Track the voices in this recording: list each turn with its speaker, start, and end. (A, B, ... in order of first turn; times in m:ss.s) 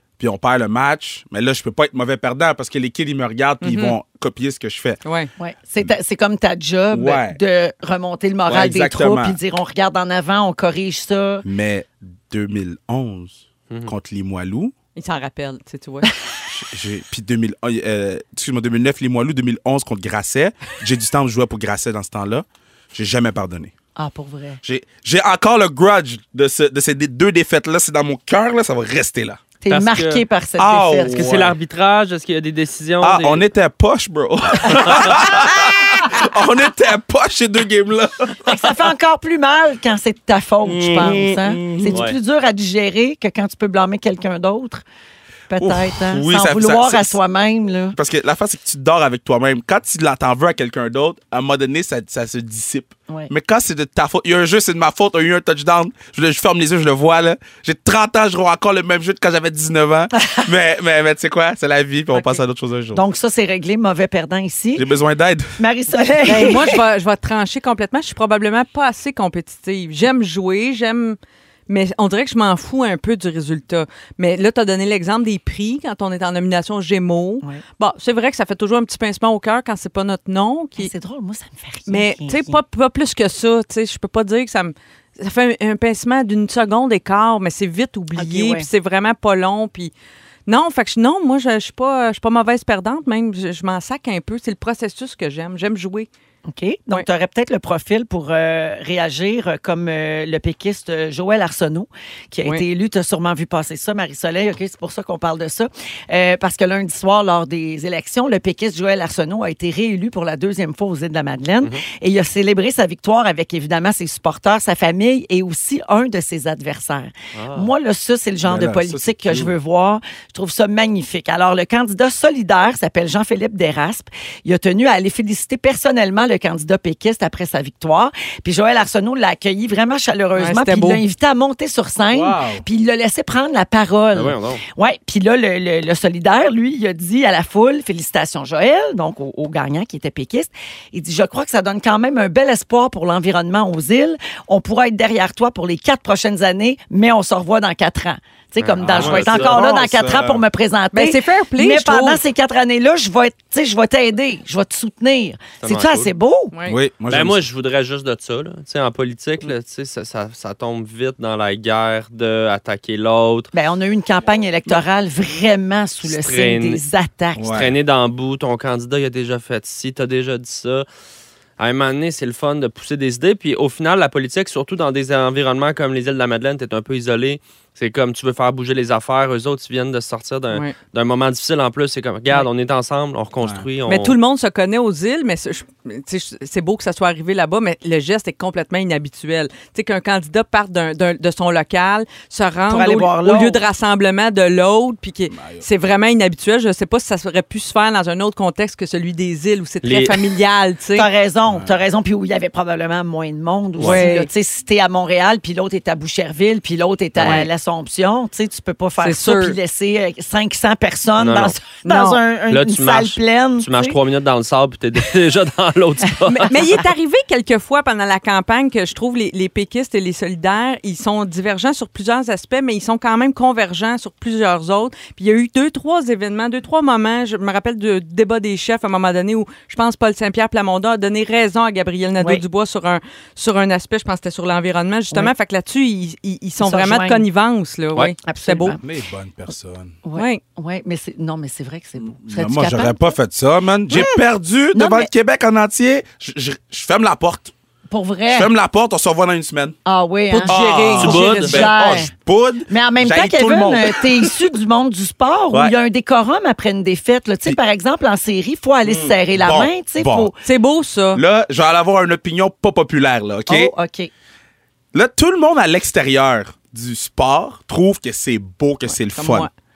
0:00.2-0:05.0 A
0:03.6-0:04.0 B
0:05.0-0:05.3 B
0:05.4-0:11.4 C
0:06.9-0:07.4 A
0:08.5-0:09.4 A
0:11.4-0:14.7 A
0:15.0-0:16.1 B
0:16.5-0:23.7 A
0:24.0-0:24.6 C
0:24.6-0:29.4 A
0:29.6-0:31.3 C
0:29.7-0:30.2 D
0:30.6-0:31.6 A
0:31.1-0:33.4 D
0:33.0-0:38.7 A
0:34.6-0:35.3 D
0:38.5-0:44.8 C
0:40.6-0:42.1 A
0:41.9-0:42.2 D
0:45.5-0:48.0 C
0:45.6-0:47.2 A
0:47.9-1:03.0 A
1:02.9-1:04.9 C
1:04.8-1:05.6 A
1:05.6-1:06.8 C
1:06.2-1:11.2 B
1:11.7-1:20.9 B
1:20.8-1:22.6 C
1:21.9-1:29.9 B
1:28.2-1:28.7 C
1:30.5-1:36.1 B
1:36.5-2:36.5 C
1:57.4-1:57.7 D
1:58.4-1:59.5 A
2:10.4-2:11.0 B
2:12.1-2:12.6 A
2:14.1-2:14.6 D
2:28.6-2:29.6 D
2:28.8-2:30.4 A
2:30.9-2:32.2 B
2:35.6-2:36.1 D
2:36.5-2:36.8 B
2:36.7-2:37.4 A
2:37.1-2:43.5 D
2:43.5-2:47.5 C
2:46.0-2:46.8 D
2:47.4-2:47.7 A
2:47.5-2:50.8 D
2:51.6-3:04.2 D
3:03.9-3:21.1 B
3:12.7-3:13.6 C
3:15.3-3:15.7 A
3:19.8-3:20.2 D
3:20.9-3:34.0 C
3:21.5-3:21.8 A
3:23.8-3:24.3 B
3:27.2-3:27.4 D
3:27.2-3:27.5 B
3:29.0-3:29.6 B
3:31.2-3:31.6 D
3:31.8-3:32.2 B
3:32.5-3:36.6 D
3:36.3-3:58.8 B
3:56.6-3:57.3 C
3:58.2-3:58.8 C
3:58.8-4:00.0 A
4:00.0-4:03.0 C
4:00.2-4:00.4 B
4:02.2-4:07.5 A
4:04.7-4:05.1 C
4:07.9-4:08.5 C
4:08.3-4:09.8 A
4:09.9-4:12.1 C
4:10.3-4:11.6 B
4:10.5-4:14.4 A
4:11.0-4:11.6 D
4:12.7-4:20.4 C
4:18.8-4:20.3 A
4:20.4-4:21.2 B
4:21.1-4:23.7 A
4:23.5-4:24.1 C
4:24.9-4:29.5 A
4:28.9-4:29.5 B